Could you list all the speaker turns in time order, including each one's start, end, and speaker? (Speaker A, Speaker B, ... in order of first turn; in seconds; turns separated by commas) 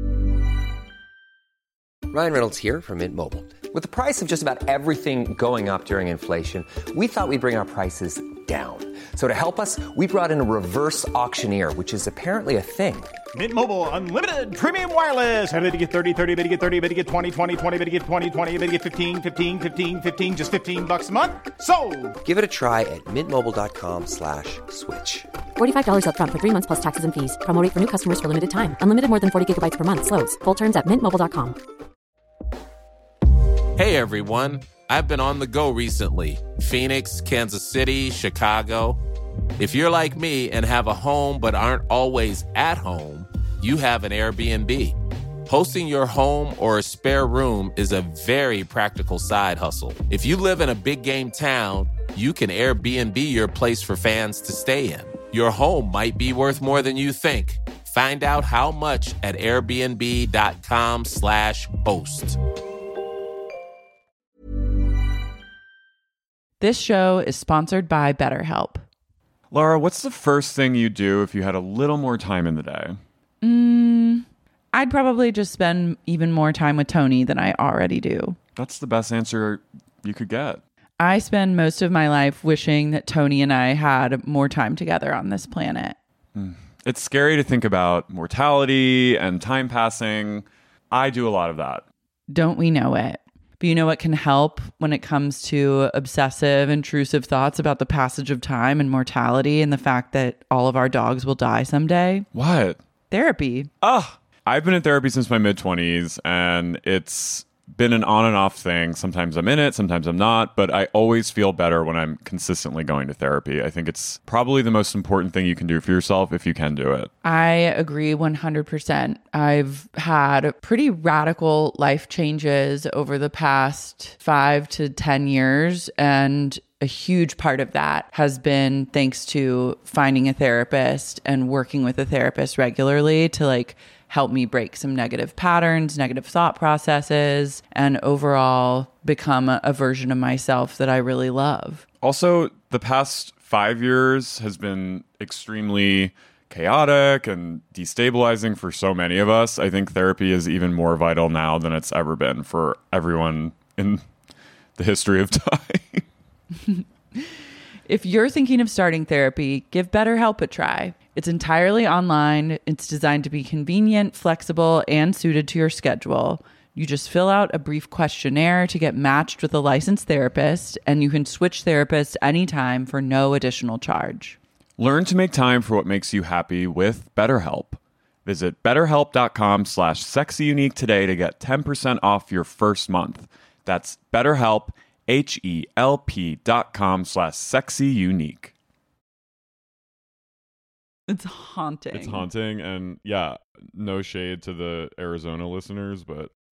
Speaker A: 2.1-13.1, Speaker B: 13.3-22.2, Speaker A: 22.2-25.3, Speaker C: 25.6-31.6, Speaker D: 33.8-39.0, Speaker D: 39.6-62.4, Speaker E: 66.6-68.8, Speaker F: 69.5-73.0, Speaker E: 73.4-78.4, Speaker F: 78.5-80.6, Speaker E: 81.0-86.0, Speaker F: 86.3-91.8, Speaker E: 92.3-102.2, Speaker F: 102.3-102.8, Speaker E: 103.1-103.7, Speaker F: 103.8-117.1, Speaker E: 117.2-141.8, Speaker F: 142.0-154.0, Speaker F: 154.8-156.0, Speaker E: 156.6-157.3, Speaker E: 157.8-174.4, Speaker F: 174.8-188.5, Speaker E: 191.1-192.2, Speaker F: 191.9-196.3